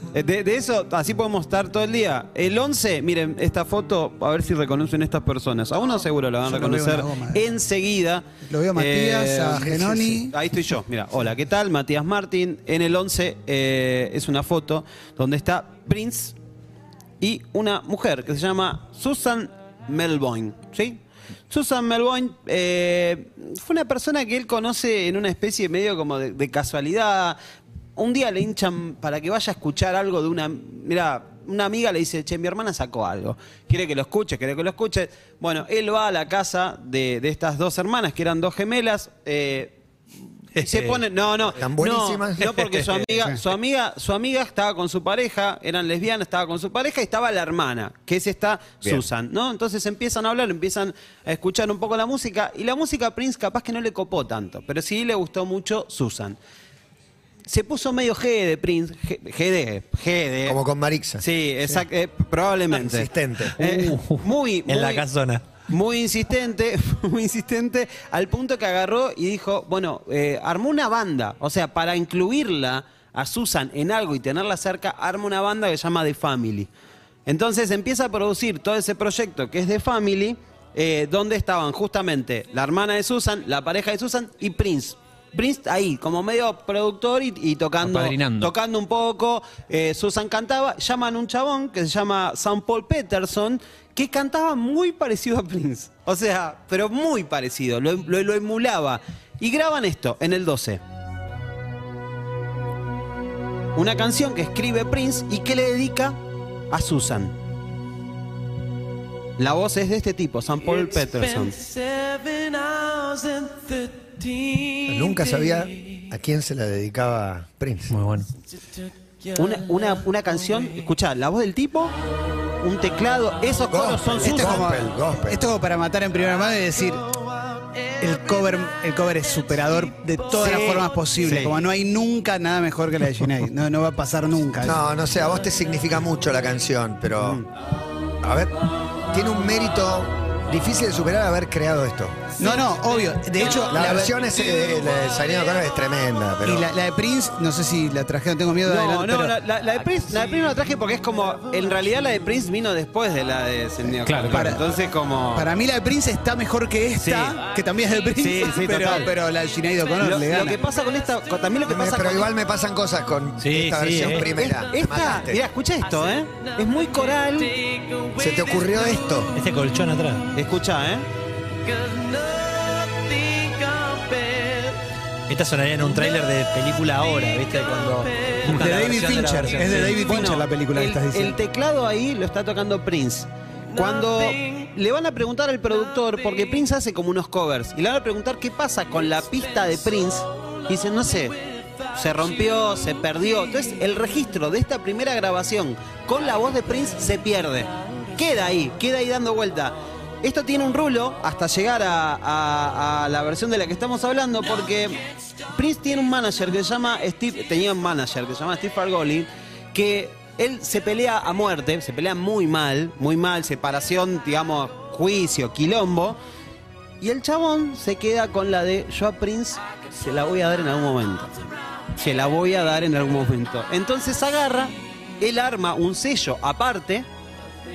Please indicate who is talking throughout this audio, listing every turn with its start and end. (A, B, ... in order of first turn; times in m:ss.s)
0:00.1-0:16.3 A
0:06.4-0:07.4 B
0:08.5-0:10.3 B
0:09.6-0:10.2 C
0:17.2-0:27.4 A
0:28.0-0:39.7 A
0:40.6-0:41.0 D
0:40.6-0:56.4 A
0:41.5-0:42.5 C
0:42.4-0:43.0 D
0:57.5-1:00.6 A
1:00.4-1:01.2 C
1:01.2-1:05.0 A
1:02.7-1:03.5 C
1:03.6-1:04.2 E
1:04.7-1:05.4 D
1:05.7-1:16.7 A
1:17.3-1:40.8 A
1:27.8-1:28.5 E
1:43.8-1:46.2 A
1:46.7-1:47.3 A
1:49.4-1:51.6 A
1:54.8-1:57.9 C
1:57.9-1:58.3 E
1:59.3-2:01.9 A
2:02.6-2:04.7 A
2:03.7-2:05.4 C
2:04.2-2:07.0 B
2:08.0-2:14.8 B
2:10.3-2:11.6 A
2:14.6-2:17.4 C
2:17.2-2:17.4 A
2:18.2-2:18.5 C
2:19.1-2:22.2 C
2:22.4-2:24.1 B
2:23.5-2:26.7 C
2:26.4-2:29.3 B
2:28.6-2:35.5 A
2:34.0-2:34.5 E
2:34.3-2:34.7 B
2:35.3-2:40.6 B
2:37.0-2:37.4 A
2:38.2-2:39.1 A
2:40.0-2:42.3 A
2:41.7-2:45.4 C
2:43.4-2:44.3 D
2:44.2-2:47.6 A
2:48.2-2:49.3 C
2:49.3-2:50.3 D
2:50.3-2:51.1 A
2:55.3-3:00.1 D
2:58.4-3:01.4 B
3:00.0-3:11.4 A
3:11.9-3:25.0 A
3:25.5-3:36.2 A
3:37.0-3:41.3 A
3:42.0-3:47.0 A